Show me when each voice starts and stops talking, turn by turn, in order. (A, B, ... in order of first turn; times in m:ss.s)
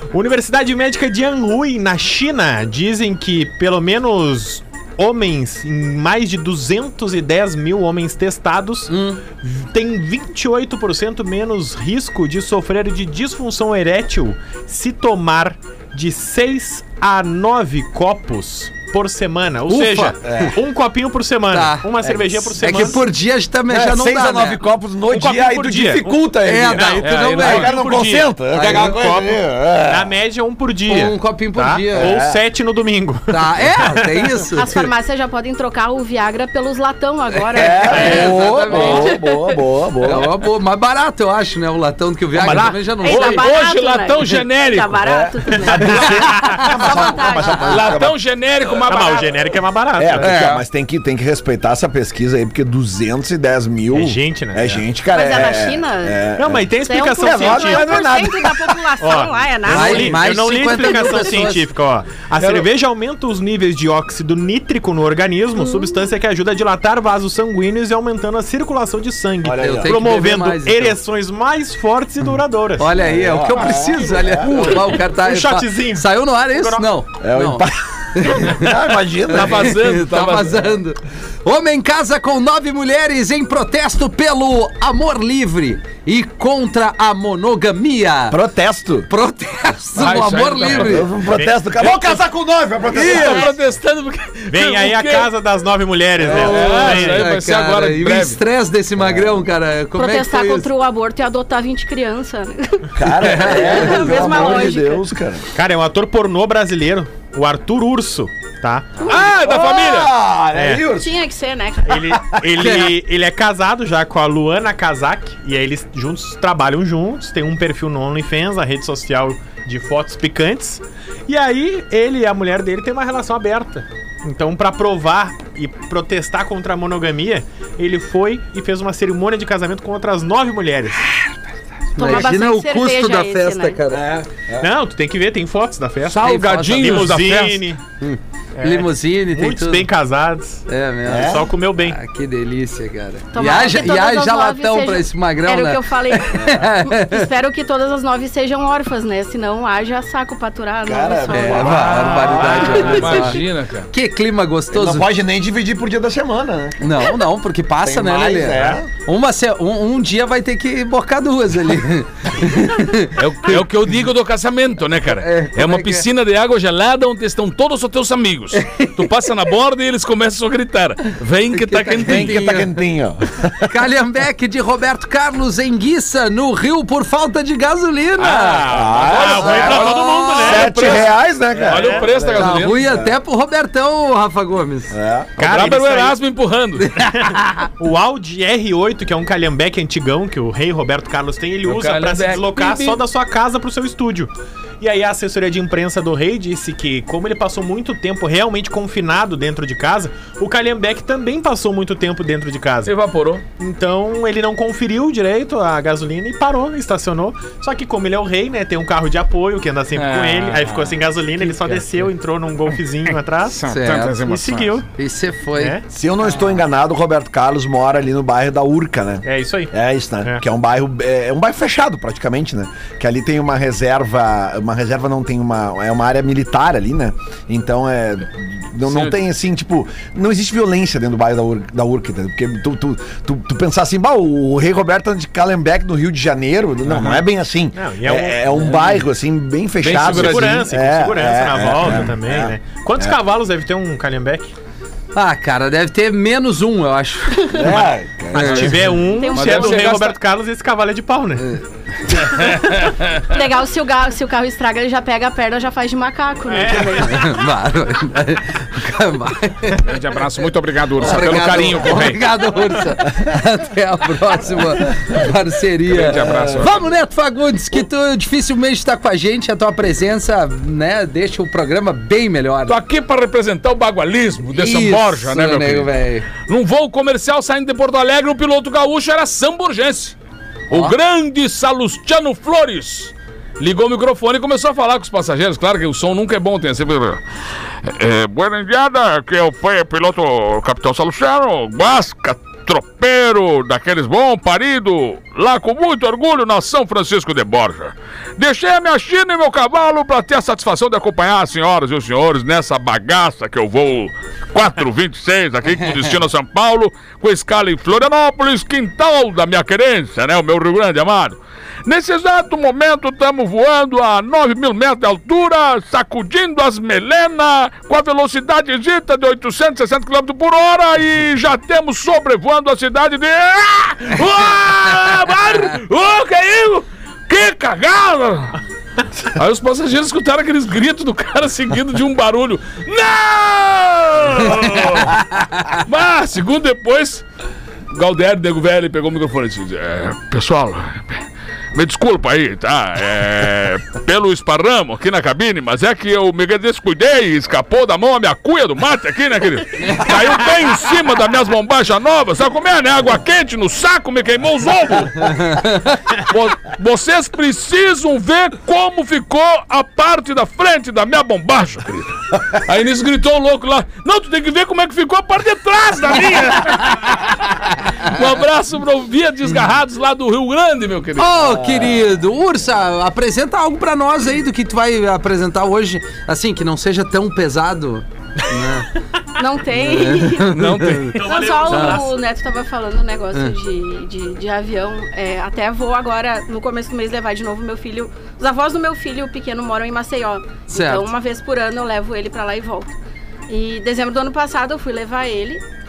0:00.1-0:23.1 A
0:08.9-0:09.2 B
0:19.7-0:20.5 B
0:20.2-0:20.6 C
0:21.5-0:24.6 B
0:23.7-0:30.1 C
0:25.1-0:26.2 A
0:26.4-0:27.7 B
0:26.8-0:34.2 A
0:27.0-0:28.1 D
0:28.5-0:29.0 B
0:30.9-0:32.2 B
0:32.0-0:32.4 C
0:33.3-0:34.9 B
0:34.5-0:39.6 E
0:37.5-0:40.3 C
0:37.6-0:39.2 B
0:37.9-0:38.3 A
0:40.0-0:43.5 B
0:42.4-0:45.0 D
0:42.5-0:42.7 C
0:42.5-0:42.7 A
0:43.0-0:47.9 E
0:45.0-0:48.1 C
0:45.6-0:46.8 A
0:47.6-0:49.6 D
0:48.8-0:50.4 A
0:50.0-0:58.9 C
0:50.2-0:50.6 B
0:53.9-0:54.8 A
0:55.1-1:01.4 E
0:56.4-0:58.2 A
0:59.0-1:13.0 A
0:59.7-1:01.7 B
1:02.4-1:02.7 C
1:05.6-1:06.1 E
1:09.4-1:10.0 C
1:09.6-1:11.0 B
1:12.8-1:18.7 B
1:13.0-1:14.8 C
1:14.8-1:16.9 A
1:17.2-1:19.8 C
1:19.3-1:28.4 B
1:19.3-1:20.7 D
1:28.3-1:29.1 C
1:29.1-1:31.1 B
1:30.0-1:31.1 D
1:30.7-1:33.5 C
1:31.3-1:32.2 A
1:32.9-1:33.5 B
1:32.9-1:35.3 D
1:34.5-1:37.3 A
1:36.3-1:40.7 B
1:36.3-1:38.4 D
1:39.0-1:39.5 C
1:40.0-1:45.0 E
1:42.9-1:45.5 C
1:43.2-1:44.7 B
1:45.6-1:49.0 A
1:49.0-1:50.1 D
1:49.1-1:51.1 C
1:50.5-1:50.9 A
1:50.9-1:52.2 E
1:51.9-2:11.0 A
1:52.2-1:52.4 C
1:52.6-1:52.9 B
2:12.0-2:14.0 B
2:12.0-2:13.8 E
2:13.9-2:14.7 C
2:14.6-2:17.8 A
2:16.0-2:17.7 D
2:16.2-2:17.1 B
2:18.0-2:19.9 B
2:18.6-2:22.0 A
2:20.7-2:27.3 B
2:21.1-2:21.5 C
2:23.3-2:32.0 E
2:30.8-2:33.0 C
2:31.3-2:35.1 B
2:31.7-2:33.9 D
2:32.5-2:33.0 A
2:34.7-2:37.1 C
2:36.8-2:43.6 B
2:37.8-2:38.9 C
2:43.2-2:52.4 D
2:45.2-2:46.1 B
2:48.6-2:49.1 B
2:51.5-2:52.7 B
2:52.0-2:53.8 C
2:53.6-2:58.7 B
2:58.2-3:01.1 D
2:58.7-2:59.9 C
2:59.0-3:01.1 A
2:59.5-3:00.6 B
3:00.4-3:03.1 C
3:01.6-3:02.1 A
3:01.6-3:02.9 D
3:02.4-3:05.0 B
3:04.9-3:05.4 C
3:05.4-3:06.2 A
3:05.4-3:07.0 D
3:06.8-3:07.7 B
3:07.3-3:22.9 A
3:11.6-3:13.0 D
3:22.8-3:23.4 D
3:23.6-3:33.6 A
3:30.0-3:32.0 D
3:33.4-3:34.8 D
3:33.7-3:34.3 B
3:34.2-3:34.9 A
3:35.0-3:35.8 B
3:35.6-3:35.8 A
3:35.9-4:03.2 C
3:39.2-3:39.7 A
3:48.9-3:49.2 D
3:56.9-3:57.2 A
3:57.8-3:58.4 A
3:59.8-4:00.7 D
3:59.8-4:04.5 A
4:05.2-4:07.6 B
4:07.4-4:07.7 E
4:07.5-4:08.9 C
4:08.3-4:08.9 B
4:08.3-4:11.5 A
4:09.1-4:10.0 E
4:09.3-4:10.2 D
4:12.2-4:13.2 D
4:13.3-4:17.3 E
4:16.5-4:17.3 A
4:17.0-4:19.9 B
4:19.8-4:22.2 D
4:21.0-4:32.8 B
4:25.9-4:26.8 D
4:26.1-4:26.7 C
4:32.7-4:40.2 D
4:34.6-4:36.3 B
4:40.7-4:41.0 B
4:40.7-4:47.2 D
4:47.8-5:28.6 D
5:29.3-5:37.2 D
5:37.9-6:11.4 D
6:11.2-6:18.9 B
6:11.4-6:12.2 C
6:19.4-6:32.9 E
6:19.7-6:21.2 B
6:20.5-6:21.4 D
6:21.2-6:22.1 A
6:21.7-6:22.0 B
6:30.7-6:31.1 B
6:33.5-6:35.6 E